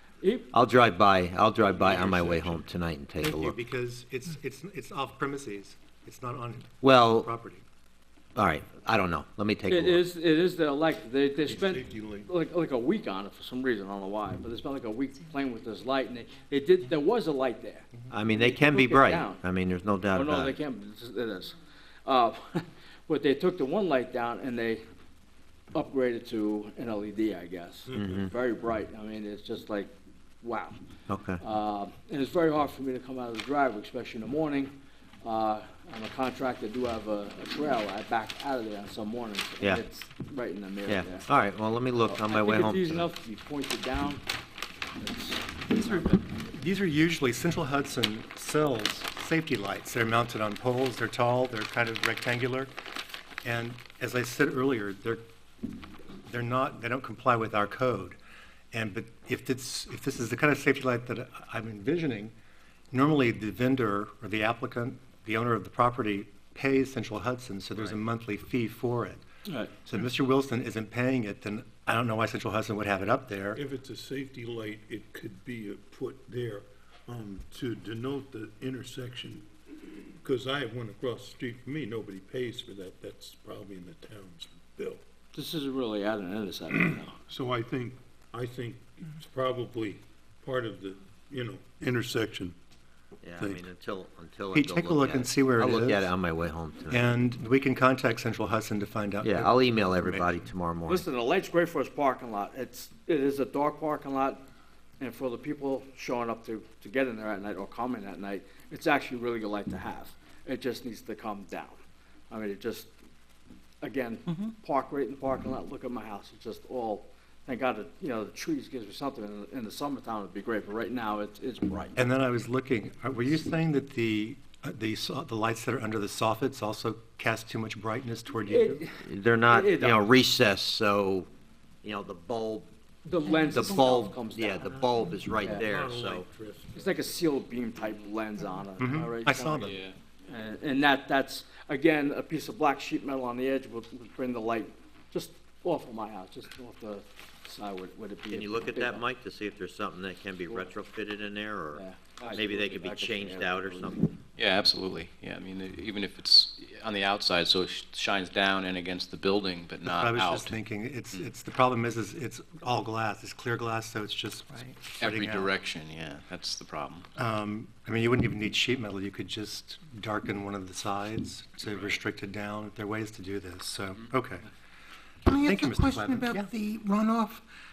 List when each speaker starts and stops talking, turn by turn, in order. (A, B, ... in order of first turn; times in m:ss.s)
0:00.2-0:00.5 A
0:00.5-0:03.6 B
0:01.6-0:02.6 C
0:03.2-0:07.6 D
0:06.8-0:07.3 B
0:08.3-0:10.0 B
0:09.7-0:19.4 A
0:11.4-0:12.3 C
0:18.1-0:20.6 B
0:20.1-0:24.8 A
0:25.7-0:30.8 A
0:27.9-0:28.3 C
0:27.9-0:28.3 B
0:31.1-0:31.4 B
0:31.4-0:41.3 A
0:40.8-0:43.1 B
0:42.0-0:44.2 A
0:45.0-0:46.4 A
0:45.7-0:52.7 D
0:53.4-0:55.2 D
0:56.2-0:58.2 D
0:58.7-1:02.3 D
1:02.9-1:09.2 D
1:09.5-1:09.7 A
1:09.8-1:13.6 D
1:13.5-1:19.5 C
1:20.2-1:25.0 C
1:25.3-1:27.1 A
1:26.7-1:32.6 C
1:33.2-1:37.2 B
1:33.4-1:33.6 C
1:34.5-1:36.1 D
1:36.9-1:40.5 D
1:39.2-1:41.0 B
1:40.8-1:44.4 A
1:45.0-1:52.9 A
1:53.8-2:02.1 A
2:02.0-2:08.9 D
2:08.4-2:10.1 A
2:09.0-2:11.3 B
2:11.8-2:12.7 B
2:13.0-2:14.8 A
2:13.2-2:13.6 E
2:13.5-2:16.2 B
2:15.3-2:17.2 C
2:16.7-2:19.7 A
2:18.8-2:19.8 D
2:19.5-2:20.0 F
2:20.2-2:29.0 A
2:28.3-2:34.1 B
2:30.5-2:30.7 A
2:31.7-2:34.0 A
2:34.4-2:40.6 F
2:39.8-2:45.5 D
2:45.0-2:47.1 F
2:47.2-2:54.5 D
2:55.2-2:57.4 E
2:55.4-2:56.5 D